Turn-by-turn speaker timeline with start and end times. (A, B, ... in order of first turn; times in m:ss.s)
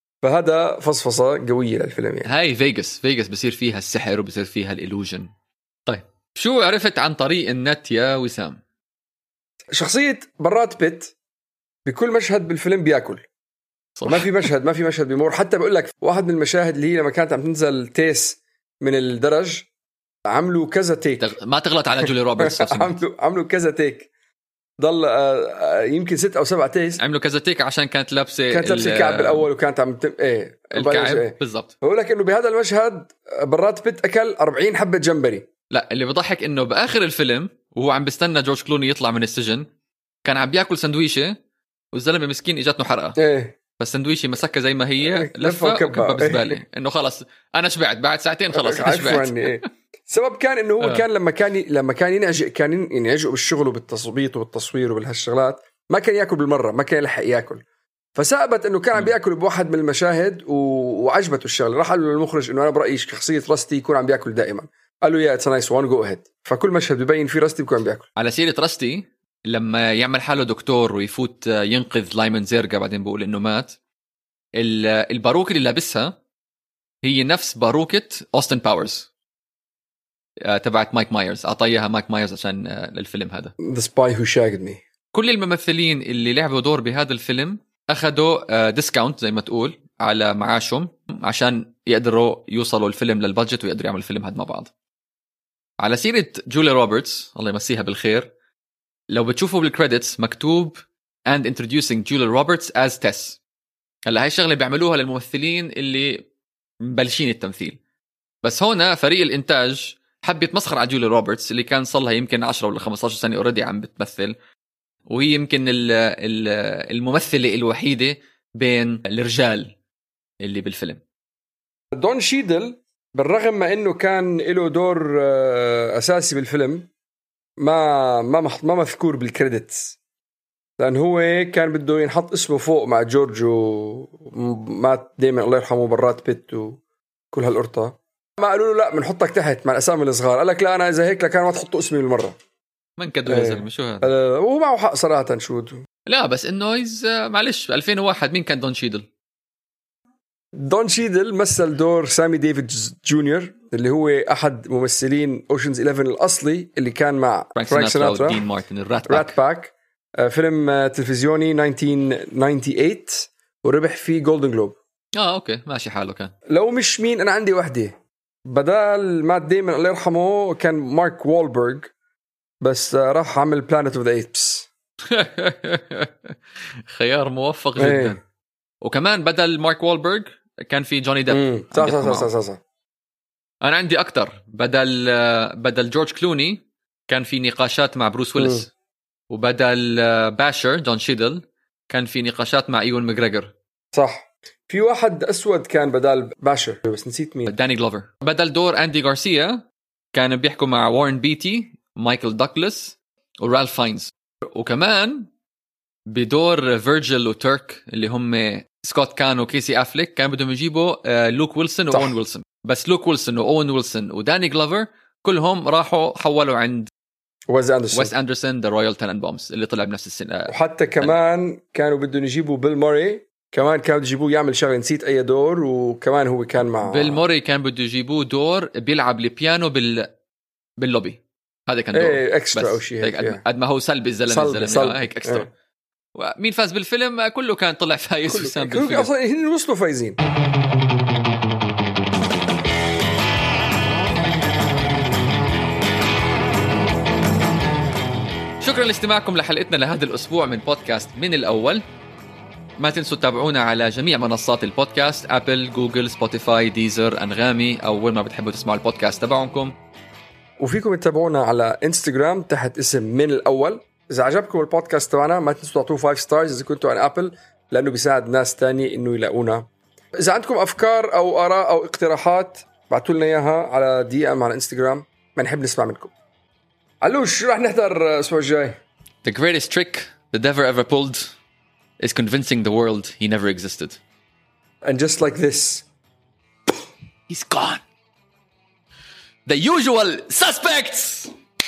0:00.2-0:02.3 A
0:02.2-0:05.3 B
0:05.9-0:08.6 B
0:09.7-0:11.1 A
0:11.8-0:13.2 A
0:14.0-0:14.3 B
0:14.1-0:19.6 A
0:20.3-0:21.3 A
0:21.2-0:23.0 B
0:22.4-0:24.1 A
0:24.8-0:27.0 A
0:27.0-0:29.5 B
0:28.5-0:35.4 A
0:30.7-0:31.7 B
0:35.7-0:39.6 B
0:40.2-0:41.3 B
0:41.9-0:43.2 B
0:43.2-0:43.5 A
0:43.8-0:49.5 B
0:45.0-0:46.6 A
0:48.5-0:57.6 A
0:58.2-1:08.0 A
1:08.2-1:13.7 B
1:14.6-1:16.1 B
1:17.0-1:19.1 B
1:20.4-1:23.5 B
1:23.6-1:24.8 A
1:25.1-1:34.7 B
1:35.8-1:38.3 B
1:39.1-1:43.4 B
1:44.1-1:46.2 B
1:46.8-1:47.8 B
1:48.4-1:54.3 B
1:55.1-1:59.7 B
2:00.4-2:01.0 B
2:01.9-2:06.9 A
2:07.6-2:09.9 A
2:10.8-2:16.8 A
2:17.3-2:22.4 A
2:23.0-2:24.1 B
2:23.3-2:25.8 A
2:26.1-2:29.0 B
2:30.5-2:38.4 A
2:37.6-2:39.3 B
2:39.1-2:44.8 A
2:45.2-2:46.3 B
2:46.5-2:47.9 A
2:48.5-2:51.9 A
2:52.6-2:54.7 A
2:55.1-2:56.4 B
2:56.9-2:58.2 B
2:57.8-2:58.2 A
2:58.8-3:02.3 B
3:01.3-3:02.6 A
3:03.6-3:08.7 B
3:08.4-3:08.6 A
3:09.3-3:13.5 B
3:13.9-3:17.5 A
3:17.5-3:19.6 B
3:20.1-3:25.3 B
3:26.1-3:36.9 B
3:37.5-3:38.1 A
3:37.9-3:41.1 B
3:40.5-3:47.2 A
3:46.9-3:50.1 B
3:50.8-3:55.5 B
3:51.9-3:53.4 A
3:54.3-3:55.5 A
3:56.2-3:59.1 B
3:58.3-4:00.2 A
4:08.6-4:11.8 B
4:12.8-4:19.7 B
4:20.6-4:29.7 A
4:30.2-4:36.1 A
4:37.0-4:38.8 A
4:39.2-4:41.3 B
4:42.0-4:44.0 B
4:44.8-4:45.8 A
4:47.3-4:47.8 B
4:49.4-4:51.3 B